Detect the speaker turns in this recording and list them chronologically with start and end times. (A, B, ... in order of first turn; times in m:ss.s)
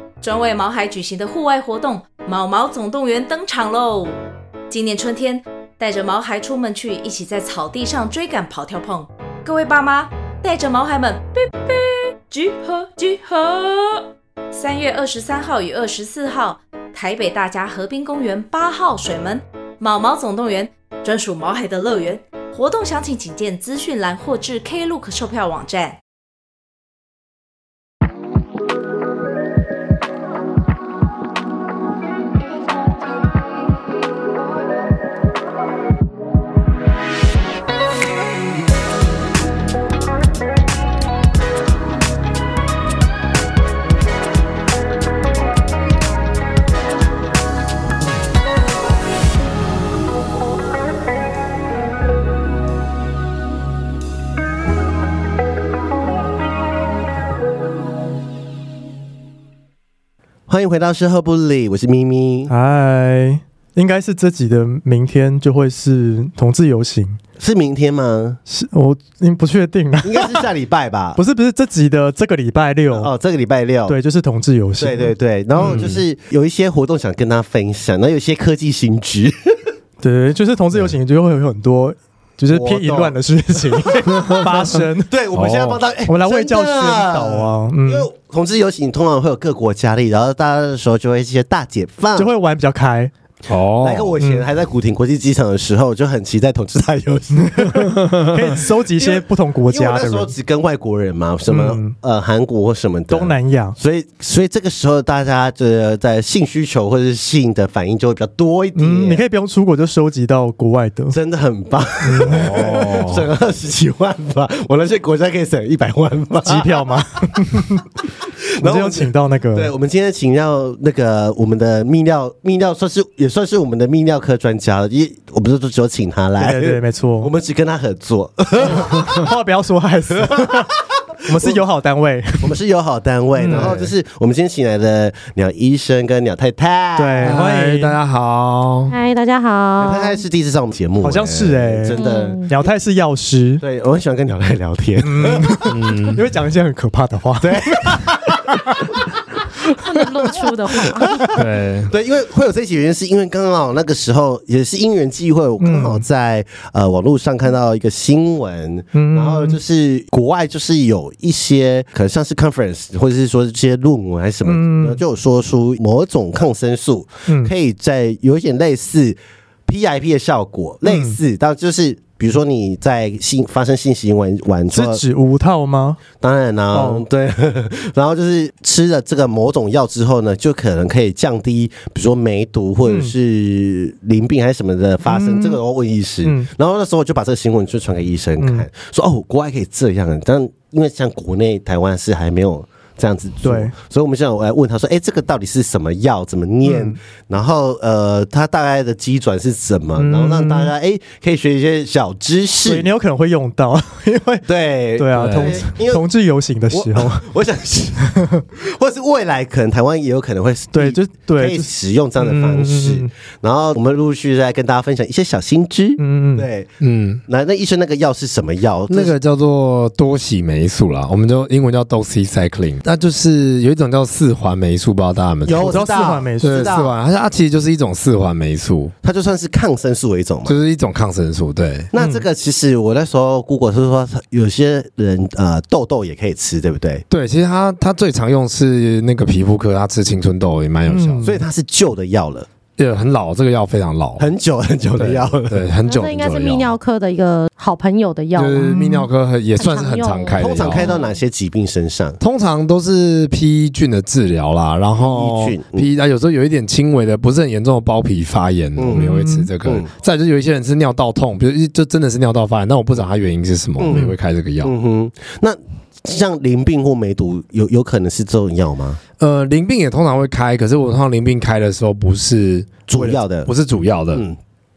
0:00.2-0:26.0 A
1:00.5-1:02.5 B
1:02.5-1:07.2 C
1:07.4-1:08.4 B
1:08.5-1:10.4 C
1:10.0-1:11.2 B
1:11.2-1:13.1 C
1:12.9-1:14.0 B
1:13.9-1:15.8 C
1:14.8-1:19.6 B
1:15.6-1:16.0 D
1:20.0-1:25.2 C
1:22.5-1:24.4 B
1:24.1-1:24.5 D
1:25.1-1:32.3 B
1:25.3-1:25.8 D
1:26.1-1:28.1 C
1:32.2-1:33.1 C
1:33.5-1:34.1 D
1:33.8-1:37.9 B
1:34.2-1:34.5 C
1:37.5-1:40.3 C
1:38.0-1:38.3 D
1:38.9-1:49.2 B
1:41.5-1:41.9 C
1:43.1-1:43.8 C
1:48.8-1:51.2 C
1:51.1-1:57.0 B
1:52.0-1:52.9 C
1:52.2-1:53.2 D
1:56.4-1:57.9 C
1:58.3-2:09.3 B
1:58.6-1:59.7 C
2:06.4-2:07.3 C
2:08.6-2:12.5 C
2:10.2-2:10.5 B
2:12.4-2:17.4 B
2:13.3-2:13.9 C
2:17.0-2:18.0 C
2:17.2-2:18.9 D
2:18.9-2:20.2 E
2:19.8-2:22.7 B
2:21.0-2:23.6 C
2:21.9-2:22.5 E
2:23.6-2:25.8 B
2:25.0-2:28.9 C
2:25.7-2:26.2 D
2:27.4-2:28.8 B
2:29.7-2:31.3 E
2:30.8-2:55.0 B
2:31.3-2:31.9 D
2:35.6-2:36.0 C
2:38.9-2:39.6 C
2:44.4-2:45.0 C
2:47.3-2:47.5 C
2:50.9-2:51.2 C
2:54.7-2:56.0 C
2:56.2-3:22.9 B
2:56.7-2:57.0 C
3:02.8-3:03.1 C
3:05.1-3:05.6 C
3:06.2-3:06.5 C
3:08.4-3:08.7 C
3:13.4-3:13.7 C
3:16.6-3:17.0 C
3:20.0-3:20.7 C
3:22.6-3:27.3 C
3:24.4-3:26.1 B
3:25.1-3:25.6 D
3:26.7-3:36.7 B
3:28.1-3:28.4 C
3:30.8-3:33.1 C
3:36.0-3:36.5 C
3:36.8-3:37.2 D
3:37.3-3:39.1 B
3:38.9-3:45.8 D
3:45.4-3:46.9 B
3:45.6-3:46.8 C
3:46.4-3:48.9 D
3:49.0-3:50.6 B
3:50.5-3:51.9 D
3:51.9-3:57.0 B
3:52.0-3:52.2 C
3:57.1-4:01.2 D
4:00.9-4:01.4 C
4:01.2-4:02.5 B
4:02.8-4:04.2 D
4:04.2-4:05.6 B
4:05.0-4:06.7 D
4:05.8-4:08.8 E
4:08.3-4:10.9 D
4:08.7-4:09.1 C
4:09.6-4:11.1 E
4:10.4-4:12.2 B
4:12.2-4:24.7 D
4:15.0-4:15.9 B
4:18.8-4:19.1 B
4:18.9-4:19.5 C
4:19.6-4:19.9 B
4:23.8-4:24.1 B
4:23.9-4:24.1 C
4:24.6-4:29.0 B
4:29.2-4:34.2 D
4:32.9-4:33.5 B